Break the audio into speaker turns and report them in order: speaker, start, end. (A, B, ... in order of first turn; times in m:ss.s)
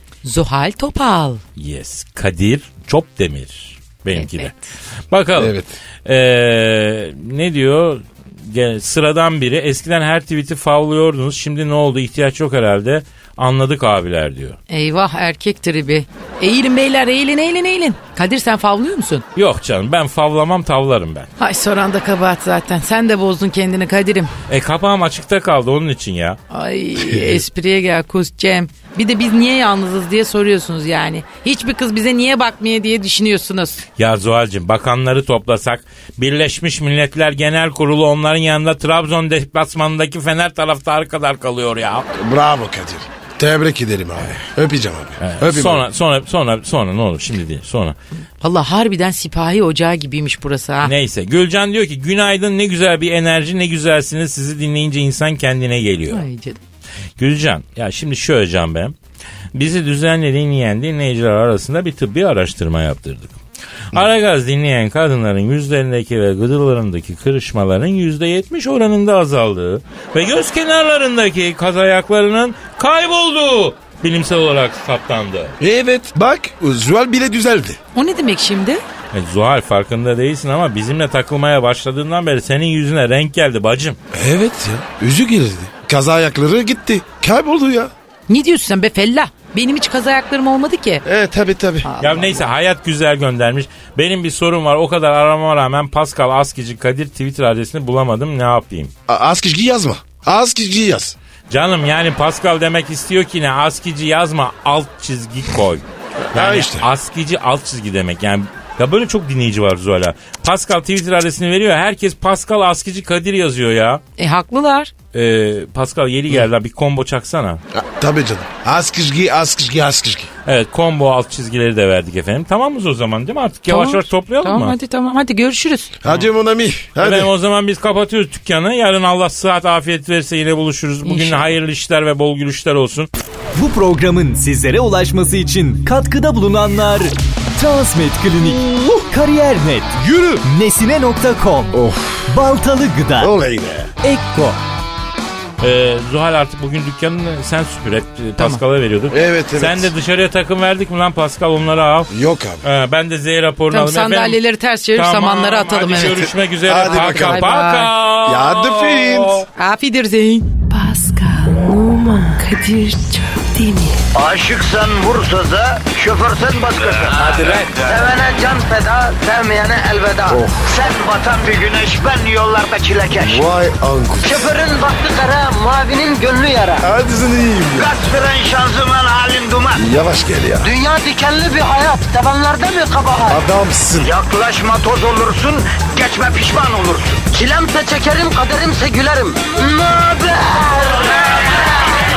0:00.2-0:01.4 A
0:01.6-0:04.5 B
0:04.1-0:04.6 A
0:05.1-0:14.6 B
0:05.4-0:05.7 C
0:14.7-0:19.2 A
0:19.4-0:21.3 B
0:21.4-0:24.3 A
0:24.5-0:26.4 B
0:26.5-0:33.8 A
0:34.0-0:42.1 B
0:42.1-0:45.9 C
0:45.2-0:48.0 B
0:48.4-0:50.9 A
0:50.8-0:56.2 B
0:56.1-0:56.6 A
0:57.2-0:59.0 B
0:59.6-1:03.4 B
1:03.9-1:15.6 B
1:15.6-1:17.8 C
1:18.0-1:18.8 A
1:19.1-1:24.0 B
1:24.1-1:27.9 C
1:28.3-1:31.0 A
1:31.0-1:31.9 C
1:31.8-1:32.5 A
1:32.0-1:38.9 B
1:39.1-1:41.2 C
1:41.5-1:54.0 B
1:46.3-1:46.9 C
1:54.2-1:54.9 A
1:55.1-1:57.6 B
1:57.7-2:00.3 C
2:00.4-2:04.8 B
2:03.7-2:06.0 A
2:06.0-2:07.3 C
2:07.0-2:13.1 B
2:11.0-2:11.5 A
2:13.6-2:23.3 D
2:21.7-2:22.3 C
2:23.2-2:23.9 C
2:24.0-2:24.6 D
2:25.6-2:32.1 B
2:29.1-2:29.9 C
2:32.1-2:32.7 C
2:32.6-2:34.4 B
2:33.7-2:37.9 A
2:34.9-2:39.5 B
2:36.7-2:37.4 C
2:38.2-2:39.5 C
2:39.6-2:40.5 A
2:40.7-2:44.0 E
2:44.1-2:53.5 F
2:50.3-2:50.7 C
2:53.2-2:54.4 C
2:54.2-2:56.9 F
2:56.8-2:57.9 C
2:57.7-2:59.8 F
2:59.8-3:00.7 C
3:00.6-3:03.4 F
3:03.3-3:04.1 C
3:04.0-3:11.9 F